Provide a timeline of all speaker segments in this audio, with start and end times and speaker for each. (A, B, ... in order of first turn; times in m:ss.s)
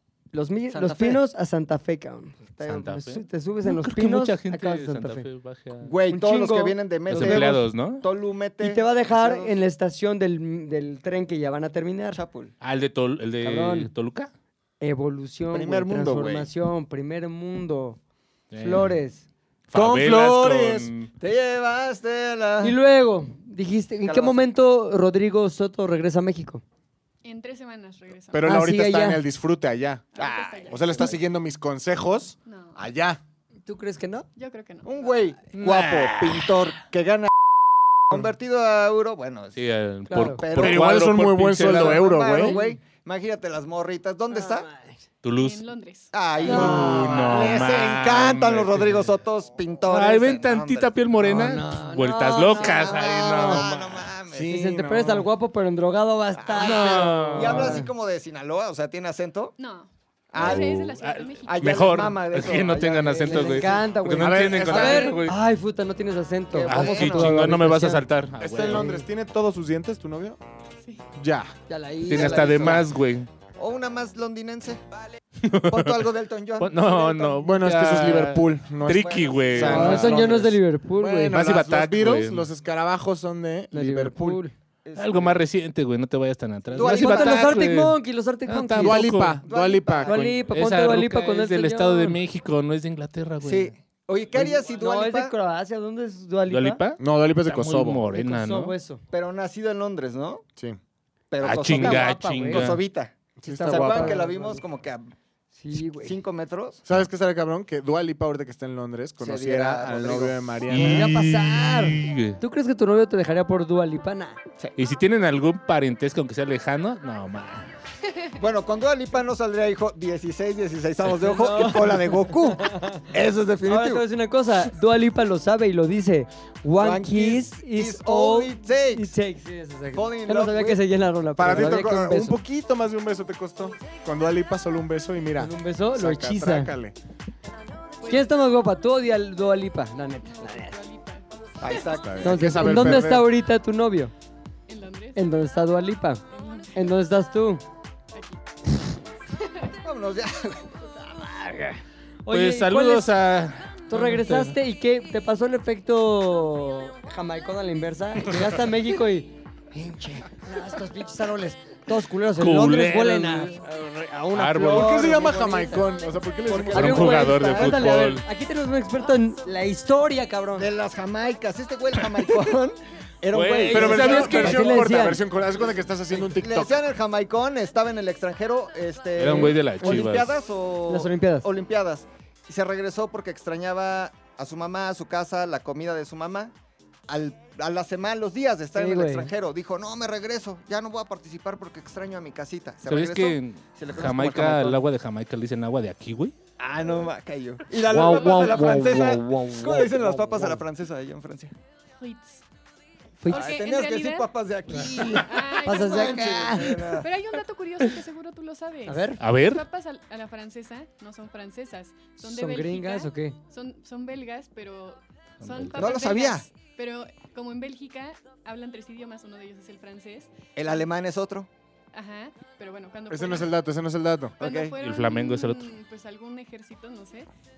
0:00.3-0:05.3 A
0:00.7-0:01.2 B
0:02.5-0:02.9 B
0:02.6-0:05.9 C
0:05.8-0:09.6 B
0:06.1-0:07.6 A
0:07.1-0:08.0 C
0:08.6-0:12.2 A
0:12.1-0:12.5 B
0:12.6-0:14.3 C
0:13.4-0:13.9 A
0:14.8-0:18.0 A
0:15.5-0:16.5 B
0:18.5-0:18.9 C
0:18.6-0:19.2 A
0:19.7-0:21.1 C
0:19.7-0:20.9 D
0:21.2-0:22.8 B
0:22.6-0:26.6 A
0:24.0-0:24.4 B
0:27.2-0:28.5 E
0:28.3-0:30.0 D
0:28.4-0:29.2 A
0:30.1-0:31.2 E
0:30.2-0:31.2 B
0:30.7-0:33.2 D
0:32.4-0:32.9 E
0:33.6-0:34.2 A
0:34.4-0:35.2 E
0:34.8-0:37.3 B
0:35.5-0:36.1 A
0:36.0-0:36.4 C
0:38.1-0:39.6 B
0:39.6-0:42.4 C
0:40.1-0:40.4 A
0:40.4-0:41.0 B
0:40.5-0:42.6 D
0:41.6-0:44.7 B
0:42.4-0:42.8 A
0:44.3-0:45.0 A
0:45.2-0:45.6 C
0:45.4-0:46.1 E
0:46.1-0:51.5 B
0:46.4-0:47.6 A
0:46.4-0:49.0 C
0:49.8-0:54.1 C
0:51.2-0:53.7 A
0:52.4-0:54.5 B
0:54.2-0:55.3 D
0:54.4-0:57.9 A
0:56.4-0:59.6 B
0:56.6-0:57.8 C
0:59.6-1:02.1 E
1:00.3-1:03.9 B
1:00.4-1:05.4 C
1:02.7-1:08.0 A
1:04.2-1:05.2 D
1:06.5-1:07.4 B
1:06.6-1:08.8 C
1:08.4-1:10.4 D
1:08.6-1:09.1 A
1:11.1-1:11.5 D
1:11.7-1:12.8 A
1:12.1-1:13.3 C
1:12.1-1:13.0 B
1:13.6-1:14.8 B
1:15.4-1:16.0 C
1:15.5-1:17.4 B
1:16.6-1:20.4 C
1:17.4-1:24.4 D
1:19.0-1:20.2 B
1:19.6-1:21.4 A
1:21.3-1:22.5 C
1:23.7-1:24.5 A
1:24.8-1:25.4 B
1:24.9-1:29.4 C
1:26.7-1:29.3 A
1:26.8-1:27.7 B
1:28.8-1:30.5 D
1:29.4-1:30.3 B
1:30.0-1:32.2 A
1:30.4-1:33.7 C
1:33.4-1:35.3 B
1:34.3-1:36.8 A
1:36.5-1:38.8 C
1:37.0-1:38.0 D
1:38.1-1:39.0 A
1:39.1-1:40.4 B
1:41.3-1:45.1 B
1:41.4-1:42.8 C
1:41.6-1:42.8 A
1:43.4-1:44.6 A
1:43.4-1:44.3 D
1:45.5-1:46.2 A
1:46.0-1:46.8 B
1:46.8-1:51.0 D
1:49.2-1:51.0 B
1:50.7-1:52.4 C
1:50.7-1:54.4 A
1:54.8-1:57.7 C
1:58.4-2:04.0 B
2:01.2-2:03.1 A
2:03.6-2:12.4 A
2:06.8-2:09.1 B
2:09.9-2:10.8 B
2:11.4-2:16.9 D
2:11.4-2:12.0 B
2:15.4-2:16.7 A
2:18.0-2:18.3 E
2:18.0-2:20.8 A
2:20.2-2:22.0 E
2:21.6-2:23.1 B
2:22.0-2:23.3 D
2:22.2-2:24.1 A
2:24.7-2:25.2 E
2:25.1-2:26.2 A
2:26.3-2:26.8 E
2:26.7-2:27.6 A
2:28.1-2:28.4 E
2:29.3-2:29.8 E
2:29.8-2:30.8 B
2:31.0-2:33.1 A
2:32.3-2:34.6 C
2:33.9-2:45.9 A
2:42.4-2:43.6 C
2:44.3-2:45.0 C
2:44.4-2:47.3 D
2:46.4-2:47.9 B
2:46.5-2:50.7 A
2:46.7-2:48.2 C
2:50.6-2:54.5 B
2:53.3-2:54.8 C
2:53.6-2:55.2 A
2:53.7-2:56.8 D
2:56.3-3:06.5 B
2:59.2-3:00.3 C
2:59.2-3:00.1 A
3:00.9-3:01.5 A
3:07.1-3:14.8 B
3:08.7-3:09.3 A
3:12.8-3:16.4 C
3:16.6-3:21.5 B
3:17.8-3:20.0 C
3:18.0-3:18.5 E
3:19.4-3:20.6 A
3:22.0-3:22.4 E
3:23.2-3:23.5 A
3:23.3-3:40.8 E
3:23.3-3:27.1 B
3:24.7-3:27.0 A
3:28.8-3:29.2 A
3:29.2-3:29.6 C
3:32.2-3:33.4 A
3:35.4-3:36.0 C
3:35.8-3:36.4 B
3:40.6-3:41.5 B
3:41.9-3:43.5 E
3:43.1-3:44.4 D
3:44.4-3:44.8 B
3:44.4-3:47.3 E
3:44.8-3:45.7 C